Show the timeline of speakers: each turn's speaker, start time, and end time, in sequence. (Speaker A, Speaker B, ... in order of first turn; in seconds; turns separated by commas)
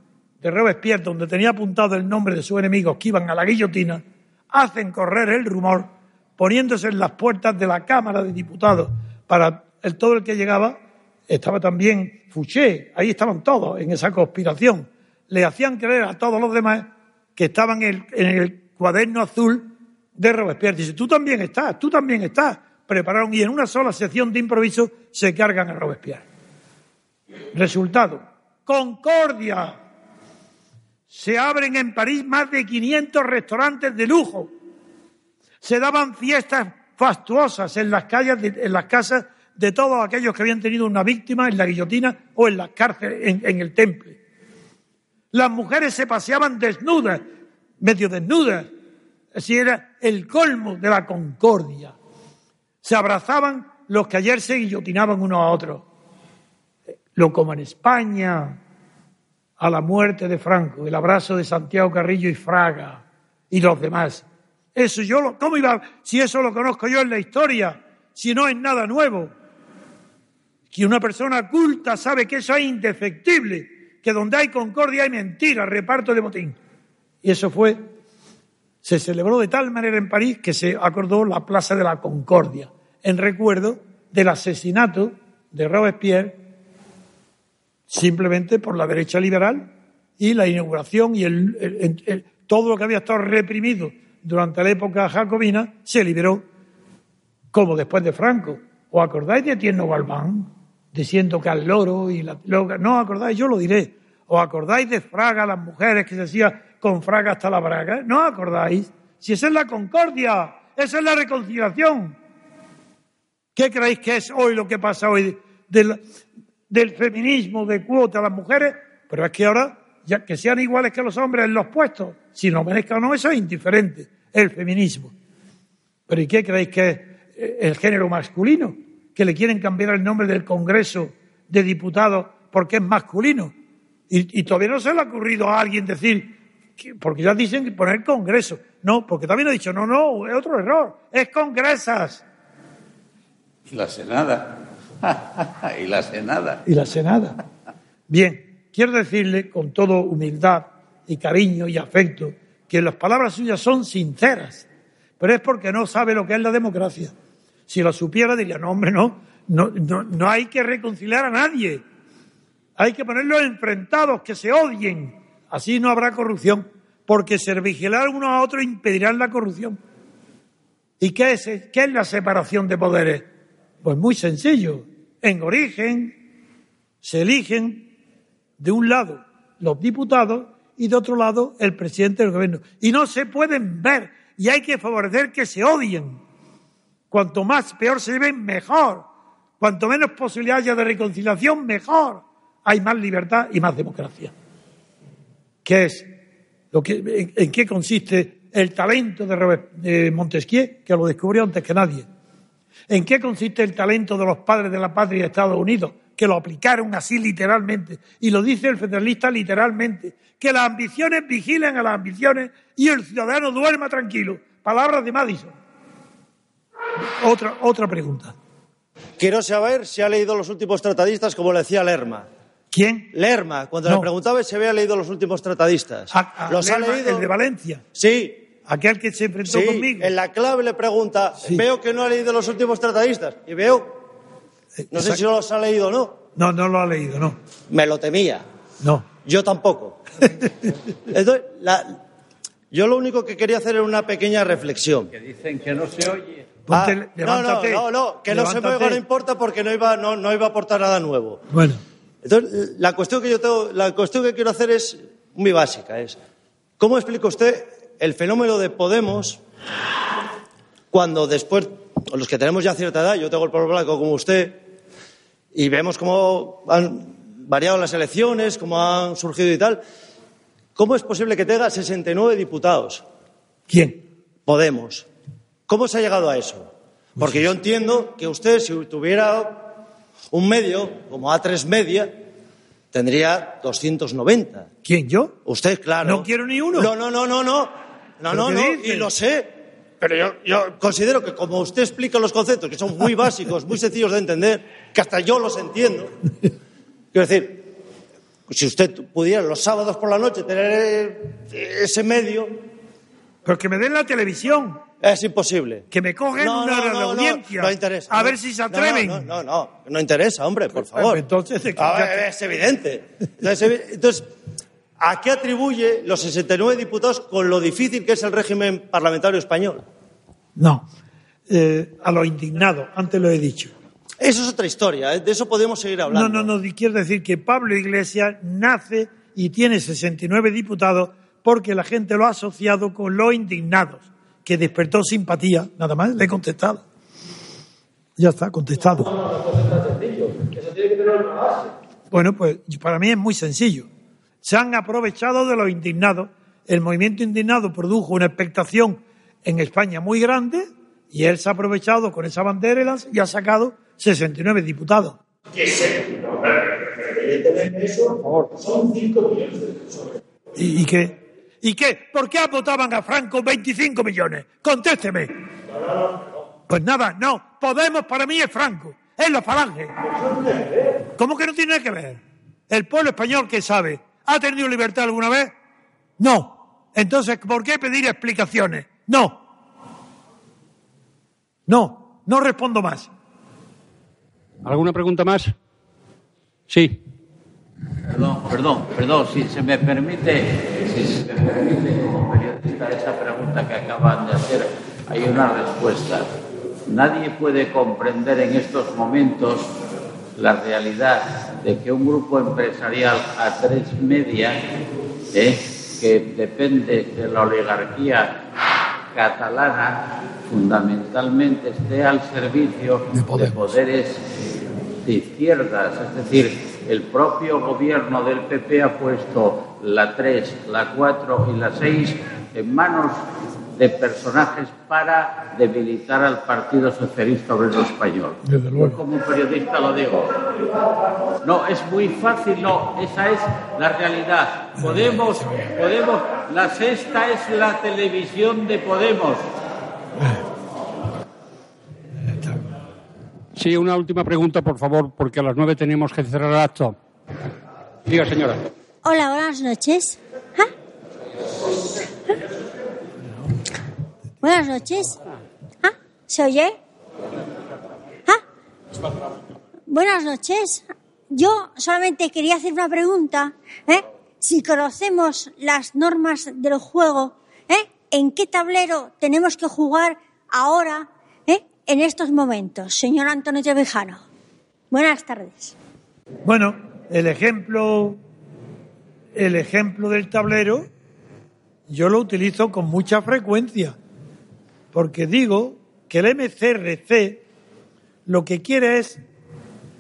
Speaker A: 0.4-26.2, Speaker A: 27.5-29.8, Speaker A: 31.1-34.5, Speaker A: 35.6-44.2, Speaker A: 45.3-47.2, Speaker A: 47.8-48.7, Speaker A: 49.3-52.0, Speaker A: 52.8-55.9, Speaker A: 57.1-58.6, Speaker A: 59.6-69.3, Speaker A: 70.7-76.6, Speaker A: 77.2-77.8, Speaker A: 78.8-86.4, Speaker A: 87.9-89.7, Speaker A: 90.2-96.4, Speaker A: 97.5-112.2, Speaker A: 113.6-116.0, Speaker A: 116.7-125.1, Speaker A: 126.1-133.5, Speaker A: 134.1-142.2, Speaker B: 143.7-146.6, Speaker A: 146.7-147.4, Speaker A: 148.1-154.7, Speaker A: 155.2-157.1, Speaker A: 157.7-161.8, Speaker A: 162.8-169.8, Speaker A: 171.0-173.3, Speaker A: 173.8-176.2, Speaker A: 177.0-177.9, Speaker A: 178.6-186.2, Speaker A: 187.1-189.1, Speaker A: 189.6-194.3, Speaker A: 195.7-196.1, Speaker A: 196.7-202.1, Speaker A: 202.9-215.5, Speaker A: 217.2-218.3, Speaker C: 219.2-222.3, Speaker A: 222.7-223.1, Speaker C: 223.1-227.3, Speaker A: 226.1-227.8, Speaker C: 227.9-228.4, Speaker A: 228.7-230.1, Speaker C: 229.5-234.0, Speaker A: 231.4-231.7, Speaker A: 234.8-235.2, Speaker C: 234.9-236.2, Speaker A: 236.4-237.4, Speaker C: 237.7-238.4, Speaker A: 238.8-239.1, Speaker C: 239.2-240.0, Speaker C: 241.1-242.0, Speaker C: 242.7-245.1, Speaker B: 245.1-246.5, Speaker A: 246.7-249.0, Speaker C: 246.7-251.4, Speaker A: 251.5-251.8, Speaker C: 252.2-256.2, Speaker C: 256.8-259.4, Speaker C: 260.9-264.6, Speaker C: 265.5-269.8, Speaker C: 270.8-273.0, Speaker A: 273.7-274.0, Speaker C: 274.5-275.1, Speaker C: 275.7-279.7, Speaker C: 280.3-282.1, Speaker C: 282.9-284.7, Speaker A: 284.9-285.4, Speaker C: 285.5-296.1, Speaker A: 286.0-286.9, Speaker A: 288.3-289.1, Speaker C: 297.1-297.7, Speaker C: 298.5-302.6, Speaker A: 303.4-304.8, Speaker C: 305.0-311.2, Speaker A: 305.9-309.3, Speaker A: 310.7-312.2, Speaker C: 311.8-314.3, Speaker C: 315.0-319.8, Speaker A: 320.6-320.9, Speaker A: 321.5-323.7, Speaker C: 324.2-326.5, Speaker A: 326.1-336.8, Speaker A: 338.2-339.1, Speaker A: 342.1-343.9, Speaker A: 344.4-355.2, Speaker C: 357.2-358.1, Speaker A: 360.6-365.3, Speaker A: 366.7-369.9, Speaker A: 371.2-375.5, Speaker A: 376.2-379.4, Speaker A: 381.7-383.1, Speaker D: 384.6-385.5, Speaker D: 386.7-387.0, Speaker B: 388.1-396.3, Speaker B: 396.9-399.7, Speaker B: 400.4-404.8, Speaker B: 405.3-408.4, Speaker B: 409.1-414.4, Speaker B: 415.0-423.2, Speaker B: 423.8-430.4, Speaker A: 428.4-429.0, Speaker B: 431.4-439.5, Speaker D: 443.6-447.0, Speaker D: 448.1-448.6, Speaker E: 449.0-450.7, Speaker E: 454.4-455.2, Speaker E: 455.8-456.8, Speaker E: 459.9-474.2, Speaker E: 474.9-475.8, Speaker A: 476.4-478.2, Speaker A: 479.4-480.9, Speaker A: 481.9-484.0, Speaker A: 484.9-487.4, Speaker A: 488.3-489.2